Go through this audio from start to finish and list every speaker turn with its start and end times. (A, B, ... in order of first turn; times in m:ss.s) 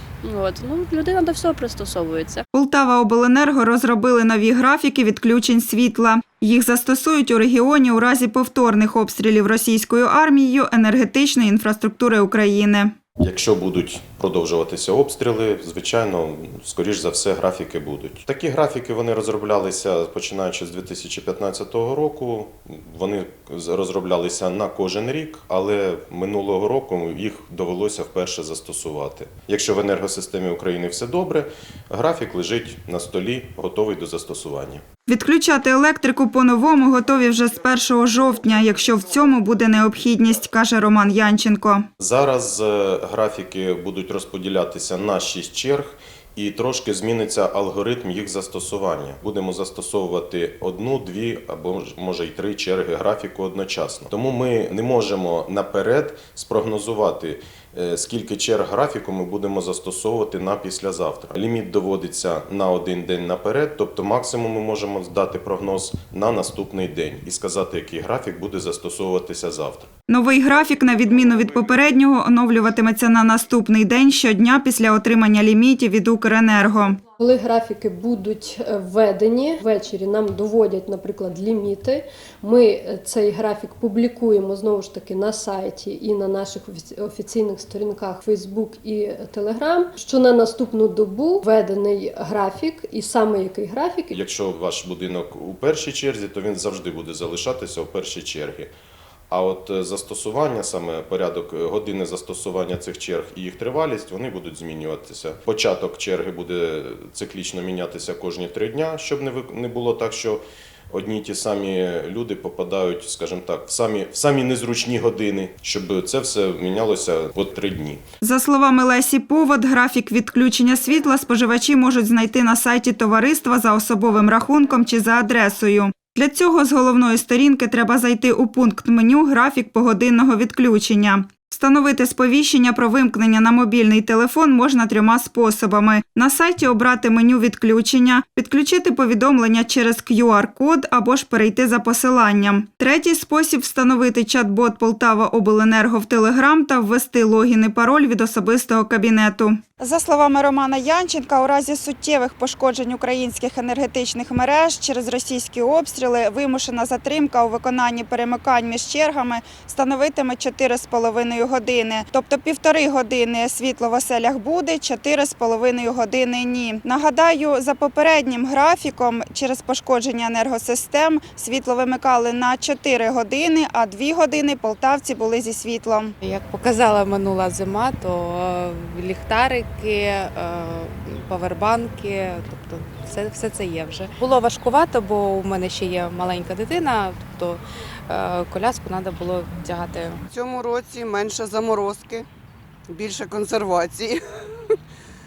0:00.2-0:02.4 A
0:02.5-0:13.0 B
0:13.2-0:34.8 C
0:35.1-0:41.9 B
0:42.0-1:09.9 C
1:10.1-1:17.0 B
1:17.2-1:34.2 D
1:34.1-1:38.7 C
1:39.3-1:58.0 C
1:58.2-2:56.1 B
2:56.2-3:10.2 E
3:10.3-3:12.3 F
3:12.9-3:14.8 F